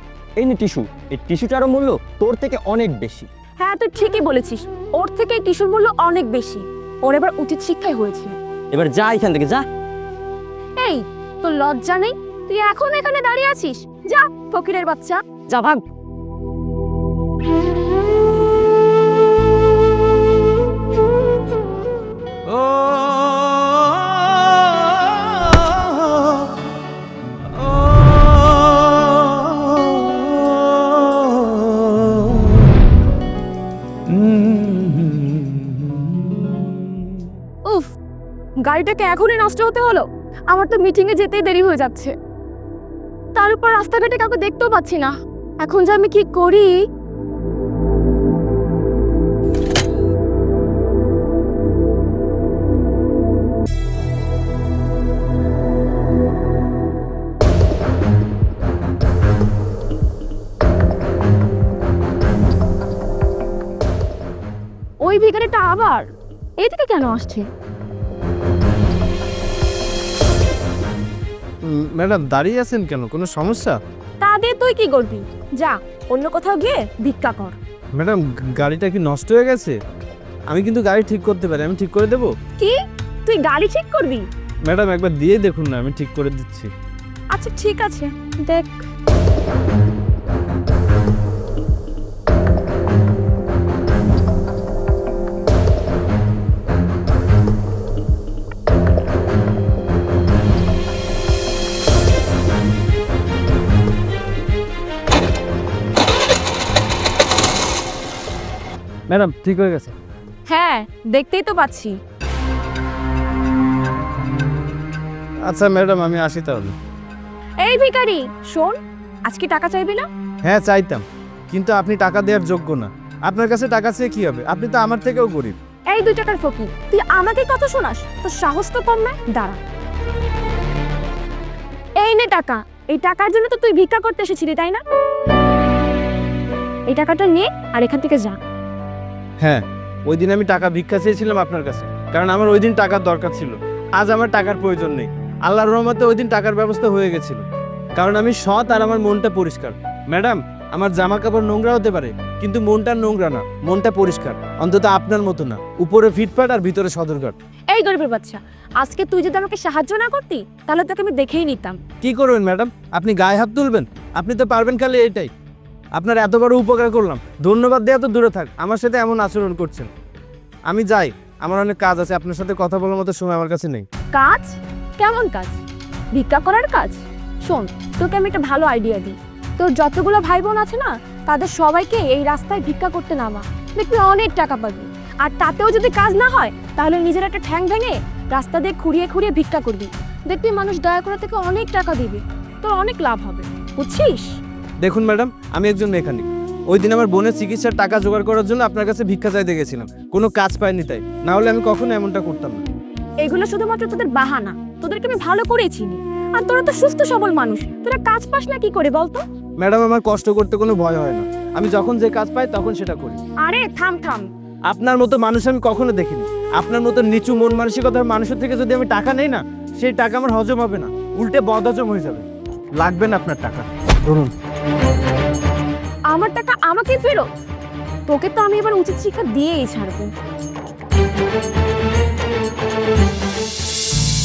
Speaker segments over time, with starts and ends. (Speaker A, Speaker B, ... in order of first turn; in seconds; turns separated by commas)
Speaker A: 0.4-3.3, Speaker B: 0.5-3.2, Speaker C: 3.6-8.4, Speaker A: 8.7-9.6, Speaker B: 8.9-9.5, Speaker C: 10.8-15.2, Speaker A: 15.5-15.8, Speaker C: 37.7-38.0, Speaker C: 38.6-42.1, Speaker C: 43.4-46.8, Speaker C: 65.0-66.1, Speaker C: 66.6-67.5, Speaker B: 71.7-73.8, Speaker C: 74.2-77.6, Speaker B: 78.0-79.8, Speaker B: 80.5-82.3, Speaker C: 82.6-84.3, Speaker B: 84.7-86.7, Speaker C: 87.3-88.8, Speaker B: 109.1-109.9, Speaker C: 110.5-112.0, Speaker B: 115.5-116.8, Speaker C: 117.6-120.1, Speaker B: 120.5-125.6, Speaker C: 125.9-129.6, Speaker C: 132.0-134.8, Speaker C: 136.9-138.4, Speaker B: 139.4-147.4, Speaker B: 148.0-157.3, Speaker C: 157.7-161.8, Speaker B: 162.0-165.3, Speaker B: 166.0-169.9, Speaker B: 170.7-173.9, Speaker C: 174.1-175.6, Speaker C: 176.1-194.3, Speaker B: 194.8-202.6, Speaker C: 203.2-209.2, Speaker B: 209.6-213.2, Speaker C: 213.4-214.3, Speaker B: 214.7-222.2, Speaker B: 222.8-224.3, Speaker C: 226.1-227.3, Speaker C: 228.1-230.1